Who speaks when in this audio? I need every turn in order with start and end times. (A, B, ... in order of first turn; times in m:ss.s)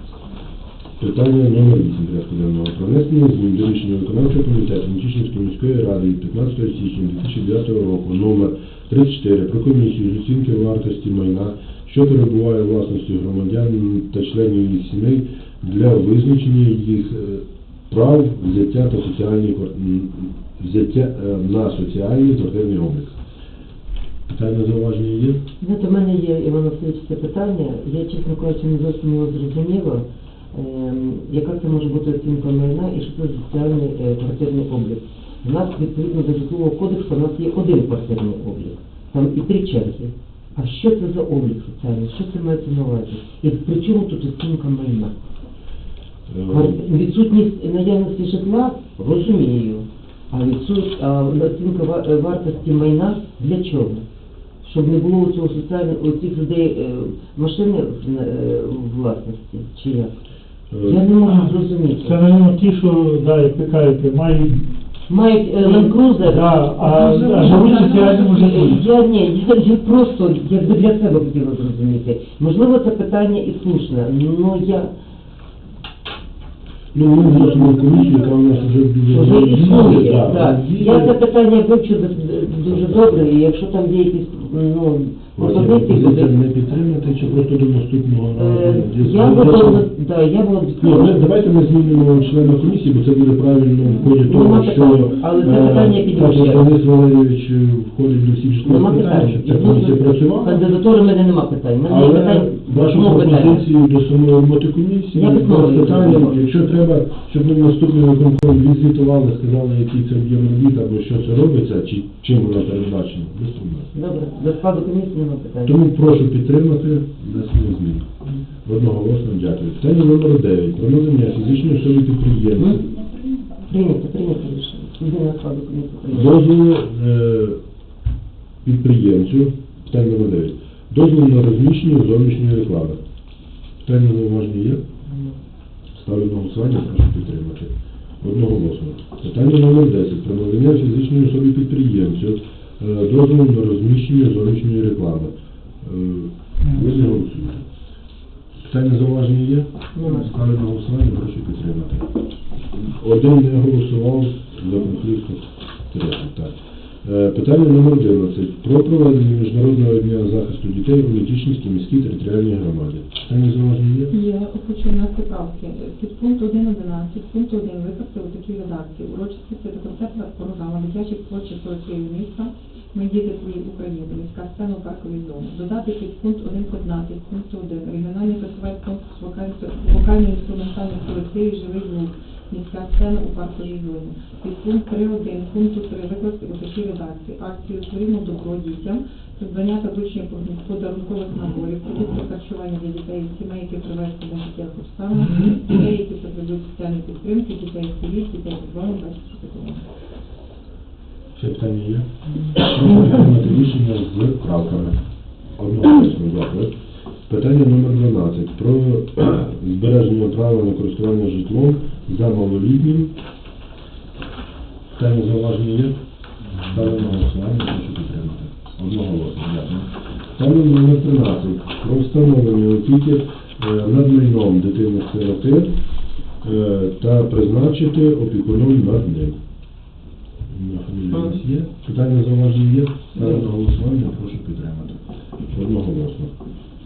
0:01.0-0:23.2 A
0:24.3-0:25.4 A
0:25.6-0:45.1 B
0:46.3-0:46.8 A
0:46.5-0:54.0 B
0:54.6-1:00.1 B
1:00.7-1:01.0 A
1:00.8-1:02.2 B
1:02.0-1:04.6 C
1:05.1-1:14.9 B
1:05.6-1:08.8 C
1:07.0-1:08.1 D
1:16.9-1:21.2 A
1:19.1-1:26.3 B
1:22.6-1:23.3 A
1:25.4-1:29.8 A
1:28.3-1:31.2 B
1:30.8-1:40.6 A
1:34.1-1:36.7 B
1:38.6-1:43.6 B
1:41.8-1:53.9 A
1:45.1-1:46.4 B
1:53.9-1:55.9 B
1:55.6-1:58.1 A
1:58.6-2:02.9 A
2:02.6-2:02.8 B
2:03.6-2:06.4 B
2:06.1-2:07.6 A
2:08.6-2:13.0 A
2:13.8-2:14.8 A
2:16.0-2:27.6 A
2:28.6-2:32.1 A
2:29.9-2:30.3 B
2:32.7-2:44.1 A
2:44.1-3:19.8 D
3:21.3-3:25.0 A
3:25.6-3:26.7 A
3:27.3-3:33.1 A
3:34.9-3:36.0 A
3:36.6-3:45.7 A
3:46.4-3:49.4 A
3:50.5-3:55.0 A
3:51.1-3:51.4 B
3:55.5-3:56.3 A